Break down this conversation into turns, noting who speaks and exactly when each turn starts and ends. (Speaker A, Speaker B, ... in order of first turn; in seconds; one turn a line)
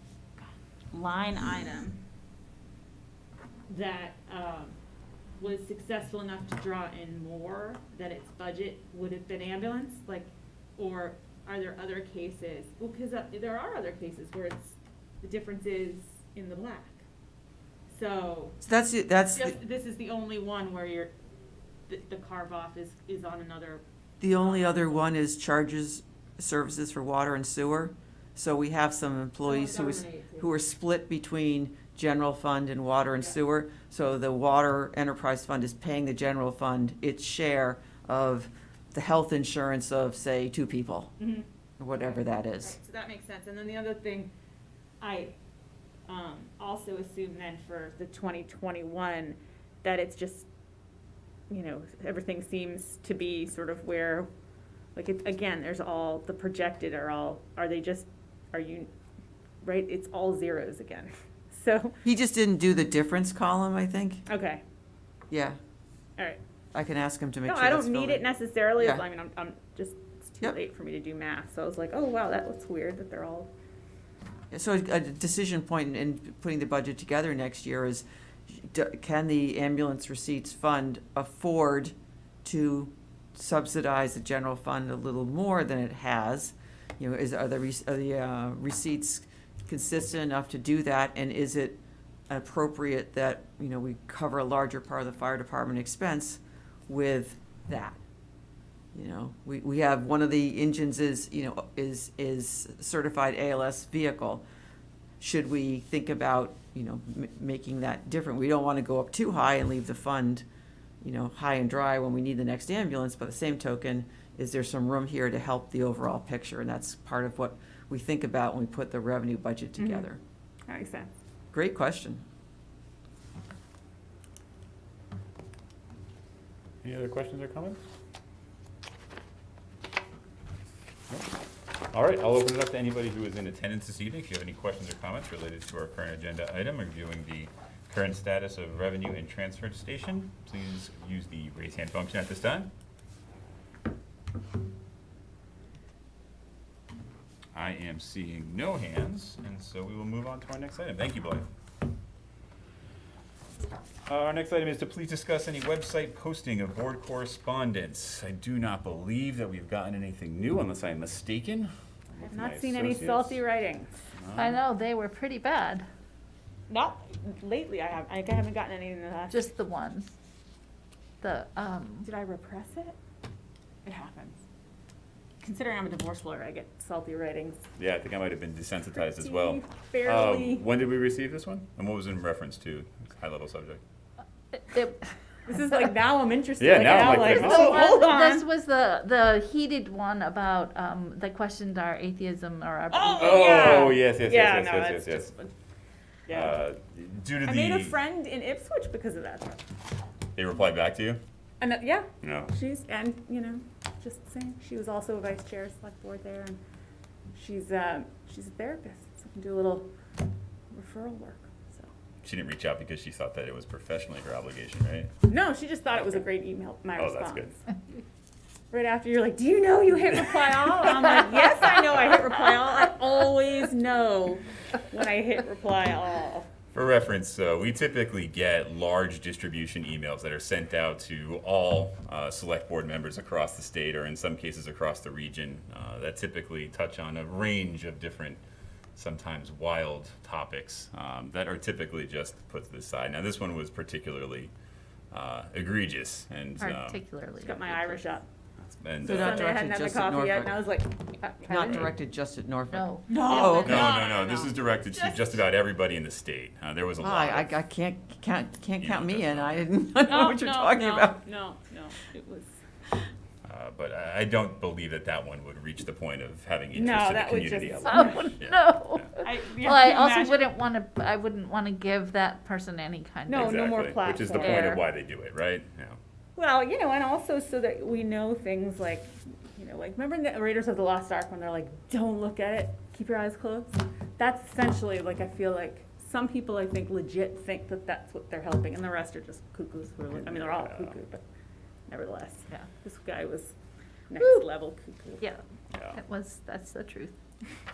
Speaker A: 0.4-2.0
Speaker A: 3.7-4.8
Speaker A: 5.4-17.0
Speaker A: 17.9-18.6
Speaker B: 18.6-19.5
Speaker A: 19.3-21.1
Speaker A: 21.9-23.8
Speaker B: 24.2-41.1
Speaker A: 24.4-24.9
Speaker A: 29.4-30.5
Speaker A: 41.2-44.3
Speaker B: 41.8-42.8
Speaker A: 45.0-45.3
Speaker A: 46.1-50.5
Speaker A: 51.5-54.3
Speaker A: 54.9-58.9
Speaker A: 59.6-62.0
Speaker B: 62.0-64.2
Speaker A: 64.3-64.6
Speaker B: 65.3-65.6
Speaker B: 66.7-68.2
Speaker A: 67.5-73.5
Speaker B: 68.8-69.0
Speaker B: 74.5-98.0
Speaker B: 98.9-104.4
Speaker B: 105.2-110.4
Speaker B: 111.0-120.2
Speaker A: 120.7-121.1
Speaker B: 121.5-122.2
Speaker C: 126.8-127.8
Speaker C: 131.9-142.7
Speaker C: 147.5-151.4
Speaker C: 154.1-163.4
Speaker A: 162.2-163.9
Speaker C: 164.2-164.6
Speaker D: 164.3-165.8
Speaker A: 166.7-169.4
Speaker D: 169.3-170.1
Speaker D: 171.2-172.1
Speaker A: 172.0-173.0
Speaker A: 173.8-174.3
Speaker A: 175.4-177.7
Speaker C: 177.8-183.8
Speaker A: 179.0-180.7
Speaker D: 184.6-185.1
Speaker A: 185.5-188.5
Speaker C: 186.6-188.1
Speaker D: 187.1-193.7
Speaker A: 192.9-195.5
Speaker C: 193.1-195.3
Speaker A: 196.3-196.6
Speaker C: 196.3-198.0
Speaker A: 197.4-199.6
Speaker C: 200.3-201.2
Speaker A: 201.6-206.6
Speaker C: 202.2-202.5
Speaker A: 207.3-209.9
Speaker A: 210.7-211.9
Speaker C: 212.2-215.1
Speaker A: 215.3-217.6
Speaker C: 217.0-217.5
Speaker A: 218.7-226.5
Speaker C: 226.7-238.4
Speaker C: 238.9-244.5
Speaker C: 245.1-247.0
Speaker D: 246.6-248.0
Speaker A: 247.4-248.3
Speaker C: 248.6-249.6
Speaker B: 249.0-250.6
Speaker A: 249.0-251.9
Speaker B: 251.5-254.0
Speaker D: 252.7-253.8
Speaker A: 253.1-255.4
Speaker C: 253.5-257.5
Speaker B: 257.0-261.2
Speaker C: 258.8-259.7
Speaker A: 260.0-262.6
Speaker C: 263.4-269.1
Speaker A: 266.7-268.4
Speaker D: 267.9-273.6
Speaker A: 269.2-270.4
Speaker A: 273.3-274.8
Speaker C: 273.4-276.0
Speaker D: 274.4-274.8
Speaker A: 276.4-291.2
Speaker C: 290.2-290.9
Speaker A: 291.9-293.5
Speaker A: 294.1-295.3
Speaker D: 295.9-297.1